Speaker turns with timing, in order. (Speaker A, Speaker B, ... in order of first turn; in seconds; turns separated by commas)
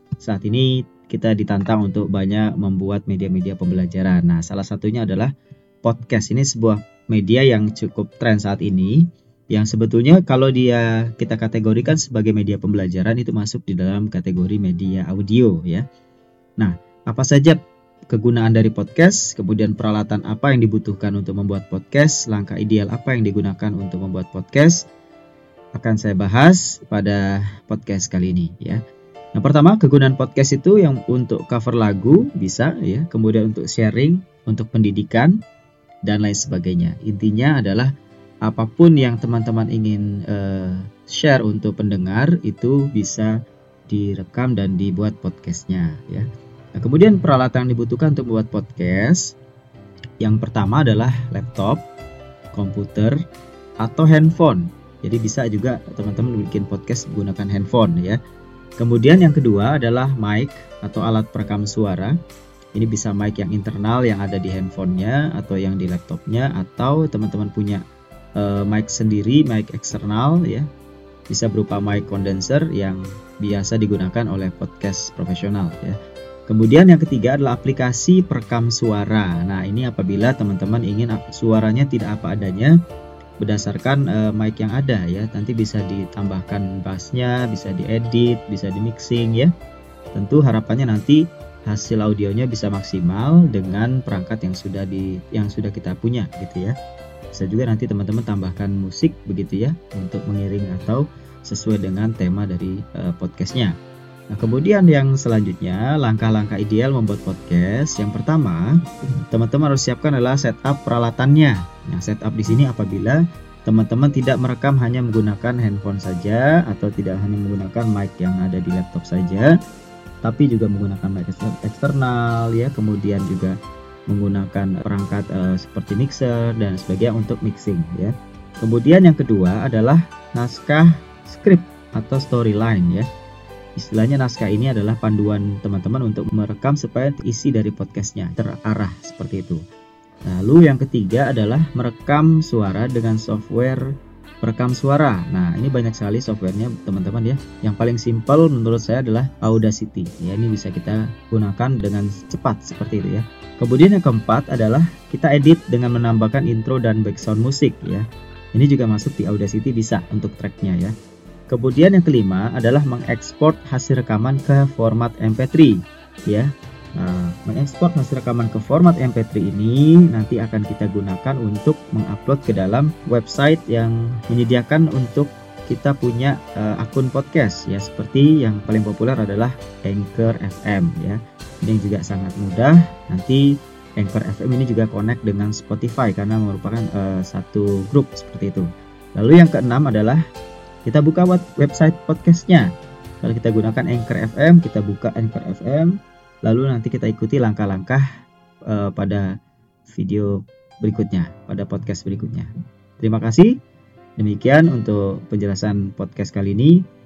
Speaker A: 0.2-5.3, Speaker A: 5.8-15.8, Speaker A: 16.6-17.6, Speaker A: 18.1-24.9, Speaker A: 25.7-28.8, Speaker A: 29.3-35.4, Speaker A: 36.0-37.9, Speaker A: 38.4-43.3, Speaker A: 43.9-49.4, Speaker A: 50.2-51.8, Speaker A: 52.5-53.2, Speaker A: 53.8-58.2, Speaker A: 58.8-62.1, Speaker A: 62.7-67.8, Speaker A: 68.4-70.7, Speaker A: 71.3-76.0, Speaker A: 76.5-82.7, Speaker A: 83.4-89.5, Speaker A: 90.1-96.7, Speaker A: 97.3-103.7, Speaker A: 104.3-108.8, Speaker A: 109.3-119.5, Speaker A: 120.2-123.5, Speaker A: 124.1-133.1, Speaker A: 133.8-139.6, Speaker A: 140.2-143.8, Speaker A: 144.4-160.9, Speaker A: 161.5-183.4, Speaker A: 184.0-190.2, Speaker A: 190.8-192.7, Speaker A: 193.2-198.0, Speaker A: 198.7-199.3, Speaker A: 199.9-203.5, Speaker A: 204.2-206.8